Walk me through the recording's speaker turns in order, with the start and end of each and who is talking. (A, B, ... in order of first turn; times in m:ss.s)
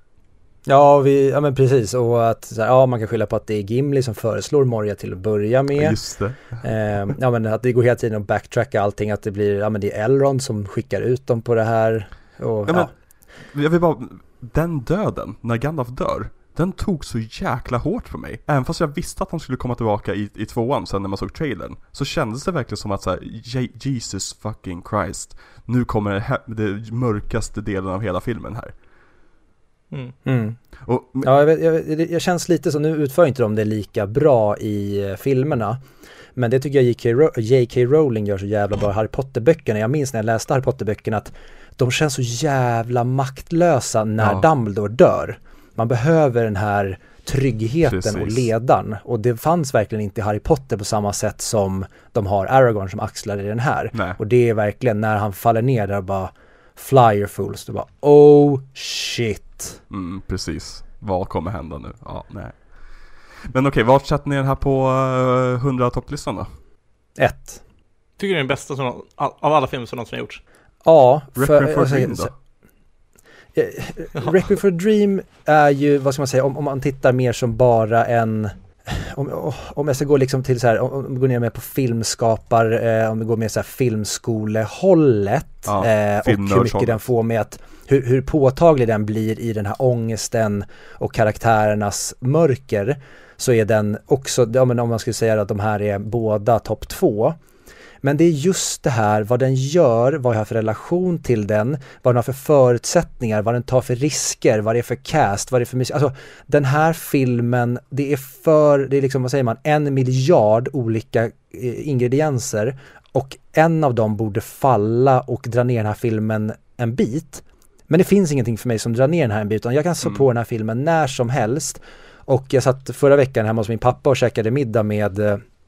0:00.7-0:06.0 A
0:05.7-0:06.6 B
0:06.6-0:12.9 A
0:12.7-0:28.7 B
0:30.2-0:30.6 A
0:30.8-0:31.3 B
0:31.2-0:35.8 A
0:36.4-0:59.8 A
0:44.2-0:44.4 B
0:47.8-0:48.5 B
0:59.9-1:02.8 B
1:03.4-1:06.5 B
1:07.2-1:07.6 A
1:08.2-1:10.4 C
1:10.8-1:12.3 A
1:11.4-1:12.3 B
1:13.6-1:37.4 A
1:25.6-1:27.0 B
1:38.0-2:05.4 A